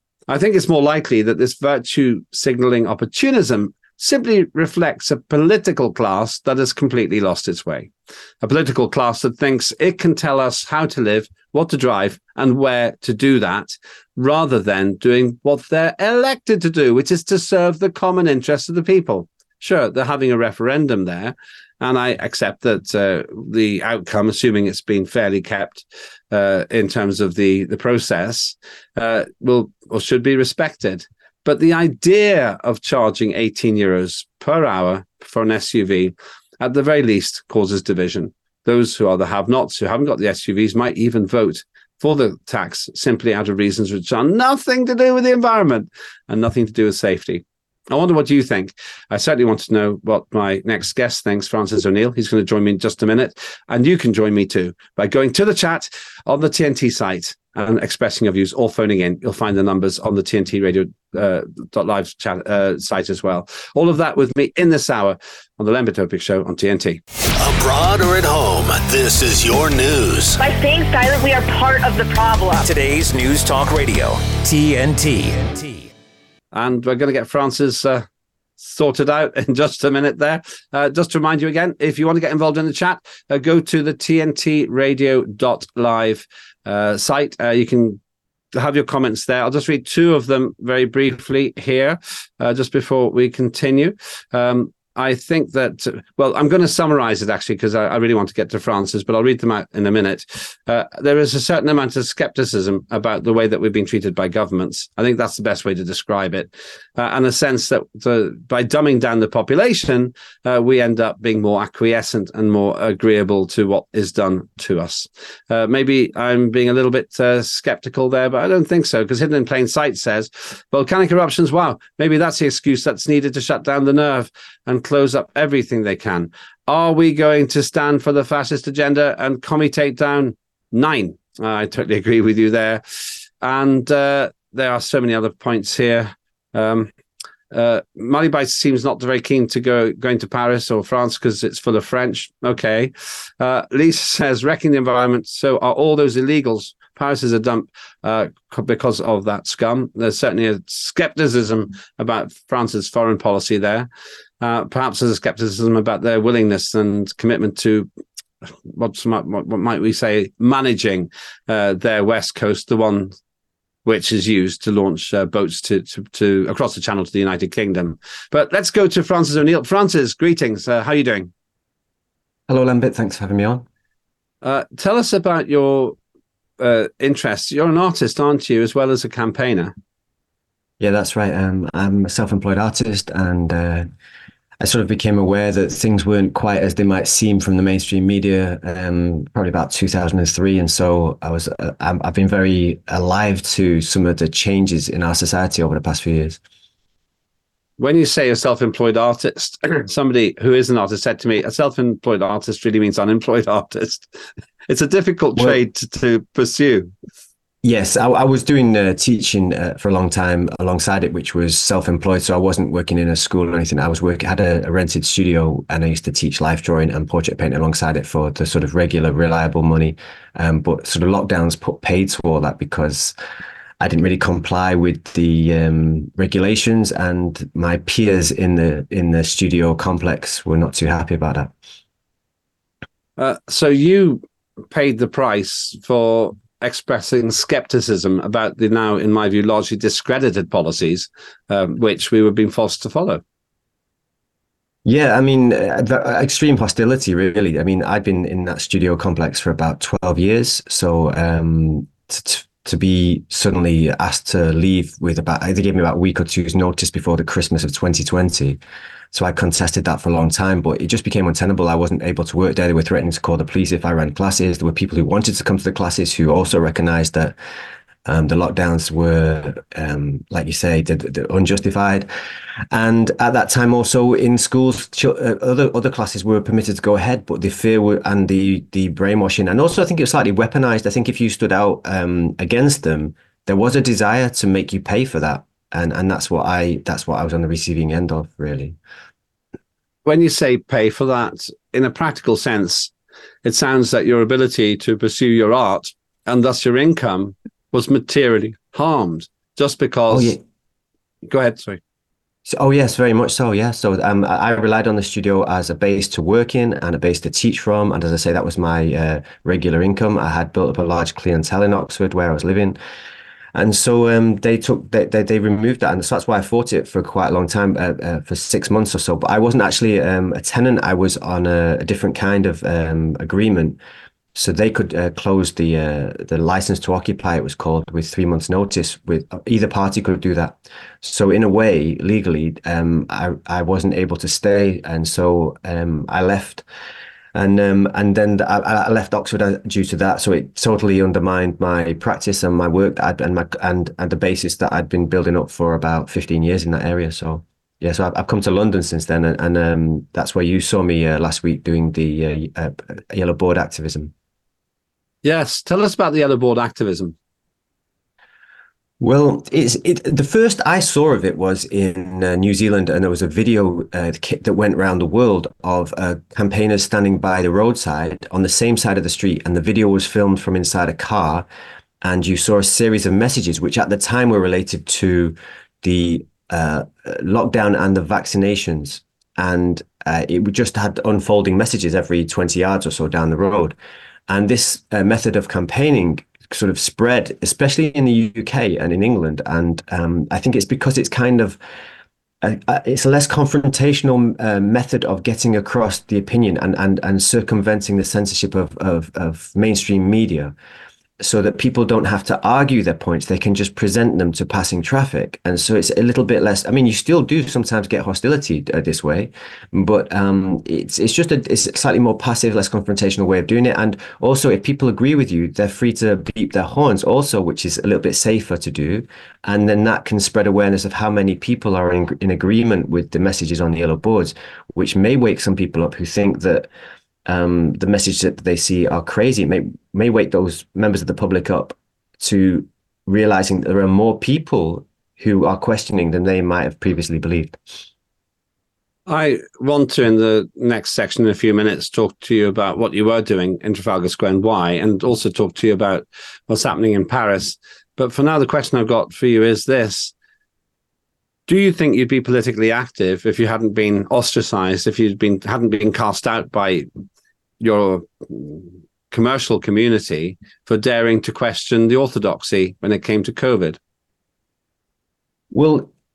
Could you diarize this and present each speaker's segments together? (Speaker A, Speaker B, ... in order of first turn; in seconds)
Speaker A: 0.3-7.9, 8.4-67.0, 76.5-78.0, 78.6-88.0, 88.5-136.9, 137.5-153.9, 154.4-157.9, 158.4-163.1, 163.8-171.3, 174.4-176.0, 176.6-179.7, 197.8-204.1, 204.7-206.9, 233.2-243.2, 290.0-292.9, 293.4-300.4, 301.3-301.8, 355.2-357.1, 439.1-450.1, 451.5-456.9, 457.6-463.8
Speaker B: 67.4-70.4
Speaker C: 70.4-72.7
Speaker D: 72.6-75.9
Speaker E: 172.5-173.7, 180.8-183.9, 184.6-196.4, 207.6-223.1, 223.8-231.5, 244.8-258.6, 259.1-267.4, 268.0-272.1, 272.7-288.8, 300.1-300.4, 302.4-312.8, 313.5-323.8, 324.3-336.6, 337.3-354.1, 359.0-371.5, 372.0-383.8, 384.3-391.6, 392.4-400.5, 401.2-426.7, 427.2-437.6, 465.5-465.9